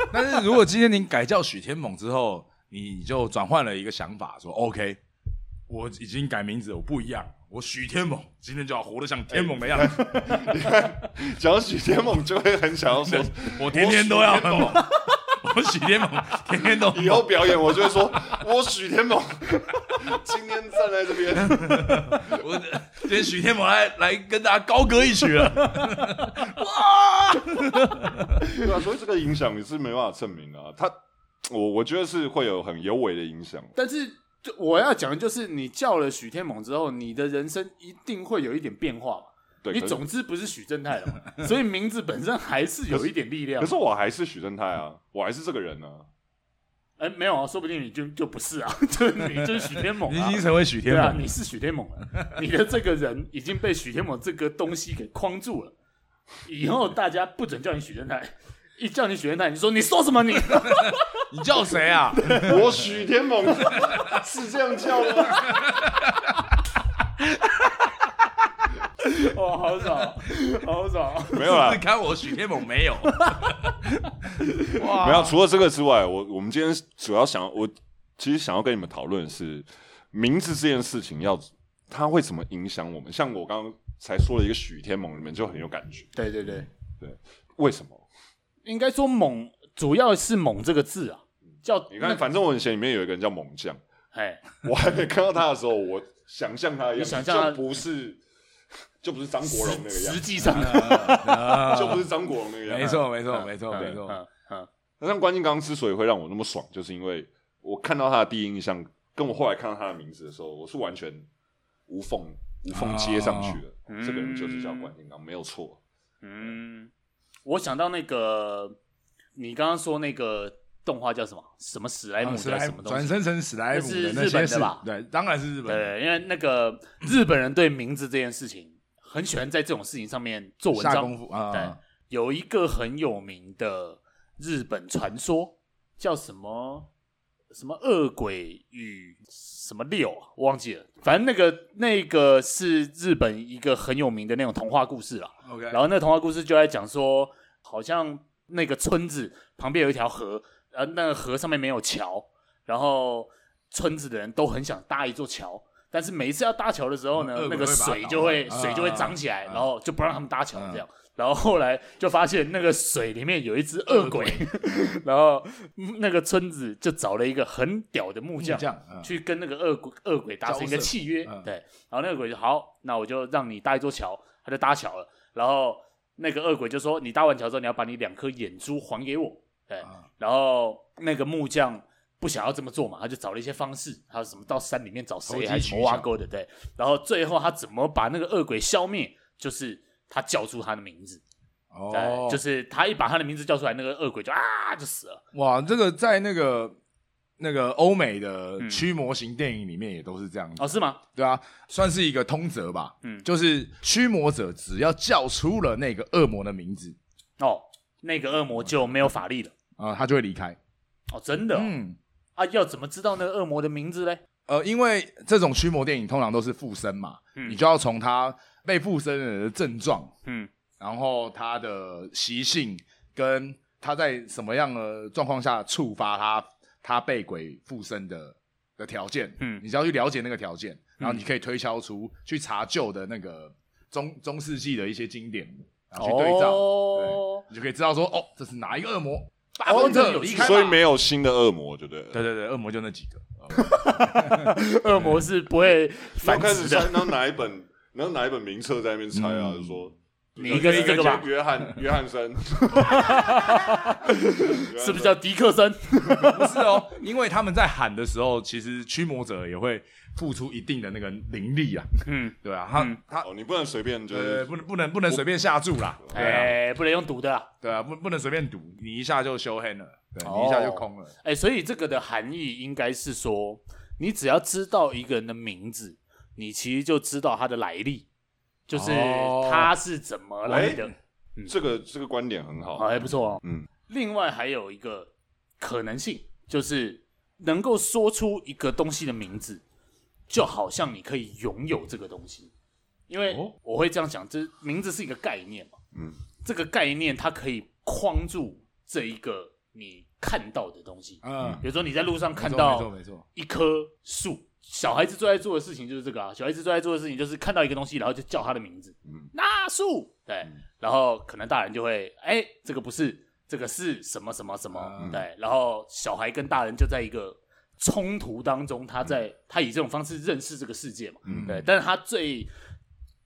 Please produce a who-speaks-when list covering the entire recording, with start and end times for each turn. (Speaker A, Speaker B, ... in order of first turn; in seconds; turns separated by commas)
Speaker A: 0.1-5.0, Speaker A: 5.7-10.4, Speaker B: 9.3-14.9, Speaker A: 13.0-17.9, Speaker B: 16.6-22.4, Speaker A: 21.4-28.5, Speaker B: 28.5-33.7, Speaker C: 33.8-43.7, Speaker B: 39.6-40.0, Speaker B: 43.6-46.1, Speaker C: 47.0-55.8, Speaker A: 49.6-51.3, Speaker C: 56.5-61.1, Speaker A: 60.7-62.6, Speaker B: 62.3-65.6, Speaker A: 63.7-64.1, Speaker A: 65.3-66.5, Speaker A: 67.4-68.3, Speaker C: 69.0-71.5, Speaker B: 71.3-71.8, Speaker A: 71.4-75.4, Speaker B: 74.8-86.1, Speaker C: 86.2-86.7, Speaker B: 87.0-88.0, Speaker C: 88.7-92.2, Speaker B: 91.9-93.8, Speaker C: 94.1-94.5, Speaker B: 94.6-98.2, Speaker C: 97.0-97.6, Speaker B: 99.0-100.3, Speaker C: 99.4-102.0, Speaker A: 100.5-102.1, Speaker B: 101.6-103.1, Speaker A: 102.7-104.2, Speaker C: 102.9-104.7, Speaker B: 103.7-104.0, Speaker B: 105.0-111.3, Speaker B: 111.9-115.8, Speaker A: 112.7-113.6, Speaker C: 113.9-114.9, Speaker C: 116.2-116.9, Speaker C: 117.5-118.8, Speaker C: 119.4-124.9, Speaker A: 122.2-125.9, Speaker C: 125.7-136.9, Speaker A: 130.7-131.8, Speaker C: 137.5-191.2, Speaker A: 145.4-145.8, Speaker A: 157.2-159.7, Speaker A: 160.6-160.8, Speaker A: 163.9-165.0, Speaker A: 168.4-169.1, Speaker A: 170.4-171.5, Speaker A: 185.3-186.1, Speaker A: 191.7-192.4, Speaker C: 191.9-195.2, Speaker A: 195.3-196.8, Speaker A: 197.4-207.0, Speaker C: 198.6-198.8, Speaker C: 200.6-201.0, Speaker C: 207.4-209.5, Speaker A: 209.8-210.6, Speaker C: 211.1-211.8, Speaker A: 211.5-212.0, Speaker C: 212.4-214.2, Speaker A: 214.5-220.1, Speaker C: 220.2-220.5, Speaker A: 220.8-240.7, Speaker C: 231.0-231.2, Speaker C: 236.0-237.4, Speaker C: 239.6-240.8, Speaker B: 239.9-242.2, Speaker A: 242.1-244.6, Speaker C: 243.5-247.1, Speaker B: 246.2-253.6, Speaker A: 249.1-249.8, Speaker C: 250.4-251.3, Speaker A: 250.4-251.1, Speaker C: 252.8-256.4, Speaker B: 254.5-255.2, Speaker A: 256.2-263.3, Speaker C: 262.1-263.0, Speaker B: 263.2-264.5, Speaker A: 264.1-266.6, Speaker B: 266.0-266.5, Speaker C: 266.1-267.5, Speaker A: 267.6-271.1, Speaker C: 270.2-278.1, Speaker C: 278.7-281.5, Speaker A: 278.7-279.7, Speaker B: 280.5-280.9, Speaker B: 281.5-283.7, Speaker C: 282.8-289.6, Speaker C: 290.3-292.5, Speaker C: 293.1-295.8, Speaker A: 293.3-293.6, Speaker B: 295.9-296.2, Speaker C: 296.4-322.5, Speaker A: 301.2-301.7, Speaker A: 302.4-303.2, Speaker A: 314.7-315.2, Speaker B: 315.0-315.2, Speaker B: 321.2-321.6, Speaker A: 321.3-321.7